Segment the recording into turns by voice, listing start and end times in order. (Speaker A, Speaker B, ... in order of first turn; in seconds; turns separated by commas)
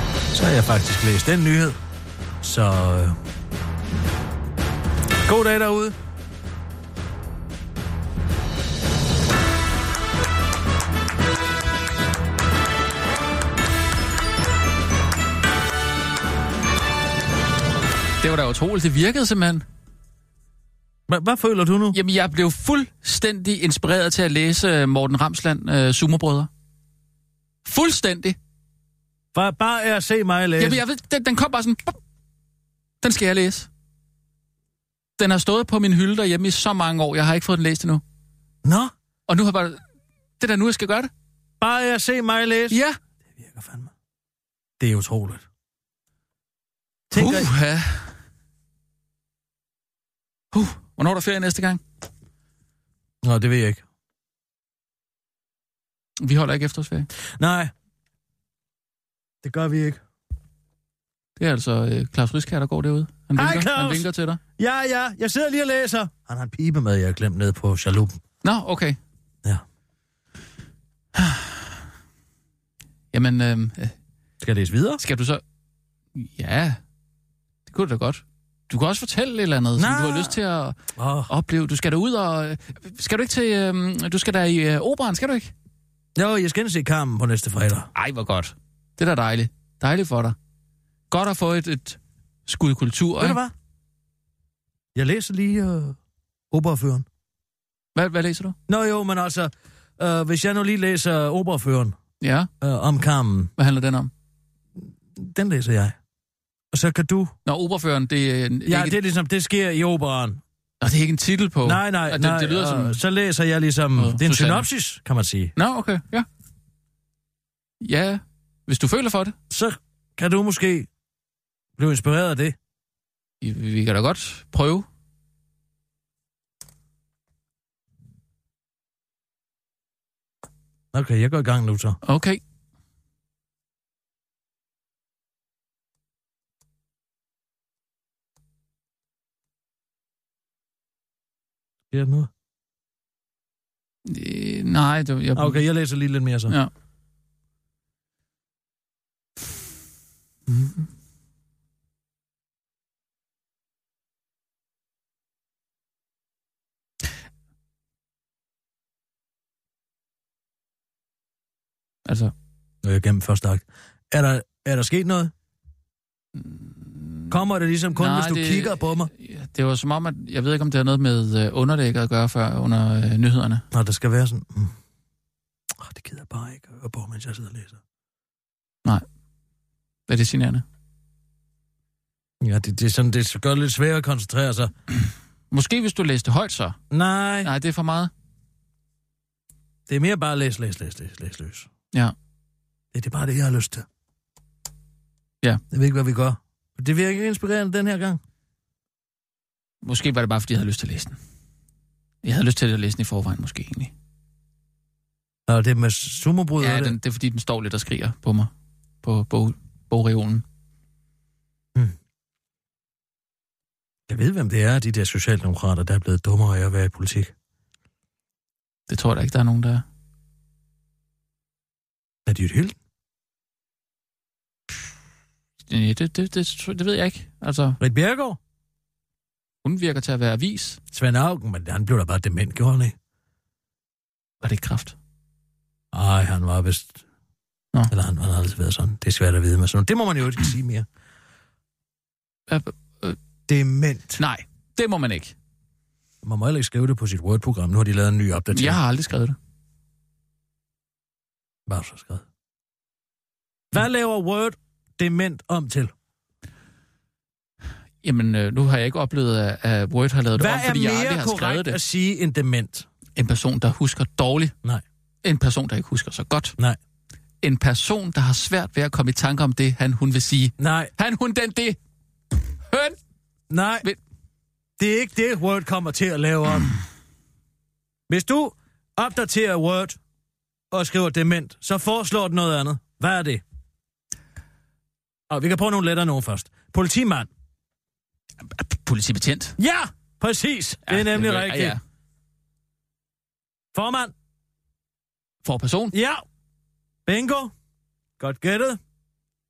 Speaker A: 0.3-1.8, Speaker A: 2.4-3.2, Speaker A: 5.2-6.0, Speaker B: 18.2-19.6, Speaker A: 21.1-22.0, Speaker B: 21.9-26.5, Speaker B: 27.6-28.4, Speaker A: 29.3-30.8, Speaker B: 30.6-32.0, Speaker B: 33.0-33.7, Speaker B: 35.2-38.0, Speaker A: 38.6-38.9, Speaker B: 39.3-39.8, Speaker B: 40.4-41.1, Speaker A: 41.6-42.8, Speaker B: 42.7-43.0, Speaker A: 43.4-43.9, Speaker A: 44.8-45.5, Speaker A: 47.1-47.5, Speaker B: 47.1-48.1, Speaker B: 50.5-51.8, Speaker A: 53.2-53.8, Speaker B: 56.2-57.1, Speaker A: 57.4-57.7, Speaker A: 59.4-60.0, Speaker B: 61.4-64.4, Speaker A: 63.3-68.2, Speaker B: 68.4-69.0, Speaker B: 71.2-71.6, Speaker B: 73.1-73.9, Speaker A: 74.4-75.0, Speaker B: 75.0-75.4, Speaker B: 76.1-76.8, Speaker B: 77.7-80.8, Speaker A: 79.8-80.4, Speaker A: 81.0-81.3, Speaker B: 81.3-85.5, Speaker A: 86.2-87.9, Speaker B: 87.9-90.3, Speaker B: 91.1-93.4, Speaker A: 93.2-93.5, Speaker A: 94.9-96.0, Speaker A: 96.5-97.0, Speaker B: 98.0-98.5, Speaker A: 98.7-102.0, Speaker B: 102.2-102.5, Speaker A: 102.6-103.5, Speaker B: 103.6-104.1, Speaker A: 105.2-106.0, Speaker A: 106.7-107.3, Speaker B: 107.5-109.0, Speaker A: 108.7-110.4, Speaker B: 110.8-113.0, Speaker A: 111.6-115.5, Speaker B: 114.0-114.7, Speaker B: 115.6-116.2, Speaker B: 117.8-119.3, Speaker A: 119.5-120.9, Speaker A: 121.8-122.5, Speaker B: 123.4-124.8, Speaker A: 130.9-132.0, Speaker B: 132.0-132.4, Speaker A: 141.9-142.3, Speaker B: 144.1-145.6, Speaker A: 145.3-146.6, Speaker B: 162.1-162.3, Speaker A: 162.8-165.3, Speaker B: 166.4-167.4, Speaker A: 167.3-169.1, Speaker B: 167.9-173.6, Speaker A: 173.7-174.7, Speaker A: 175.8-177.8, Speaker B: 180.1-180.6, Speaker A: 182.4-184.7, Speaker B: 185.5-186.8, Speaker A: 186.9-187.5, Speaker B: 187.4-188.1, Speaker A: 189.9-191.7, Speaker A: 192.9-193.8, Speaker A: 195.7-198.2, Speaker B: 199.8-201.2, Speaker B: 202.2-203.9, Speaker A: 205.5-206.9, Speaker B: 206.6-208.5, Speaker B: 209.0-210.4, Speaker A: 214.1-217.3, Speaker B: 218.9-219.8, Speaker A: 222.2-222.8, Speaker B: 225.7-227.8, Speaker A: 227.8-228.4, Speaker B: 229.6-230.8, Speaker A: 230.9-232.9, Speaker B: 234.4-234.9, Speaker A: 235.9-237.0, Speaker A: 237.9-240.8, Speaker B: 242.5-243.2, Speaker A: 243.5-244.2, Speaker B: 244.2-245.3, Speaker A: 246.2-248.8, Speaker B: 248.5-249.3, Speaker A: 251.7-252.2, Speaker A: 253.7-255.9, Speaker B: 258.0-261.8, Speaker A: 260.3-262.9, Speaker B: 263.1-264.5, Speaker B: 265.2-266.5, Speaker B: 267.4-271.8, Speaker A: 270.6-270.9, Speaker B: 272.7-273.0, Speaker A: 273.5-273.9, Speaker A: 274.8-276.7, Speaker A: 278.1-280.0, Speaker A: 280.7-283.4, Speaker A: 285.3-287.3, Speaker B: 288.4-289.6, Speaker A: 289.6-291.8, Speaker B: 290.9-291.8, Speaker A: 293.7-294.1, Speaker B: 295.4-295.9, Speaker A: 295.9-296.2, Speaker A: 297.1-297.5, Speaker A: 298.2-298.8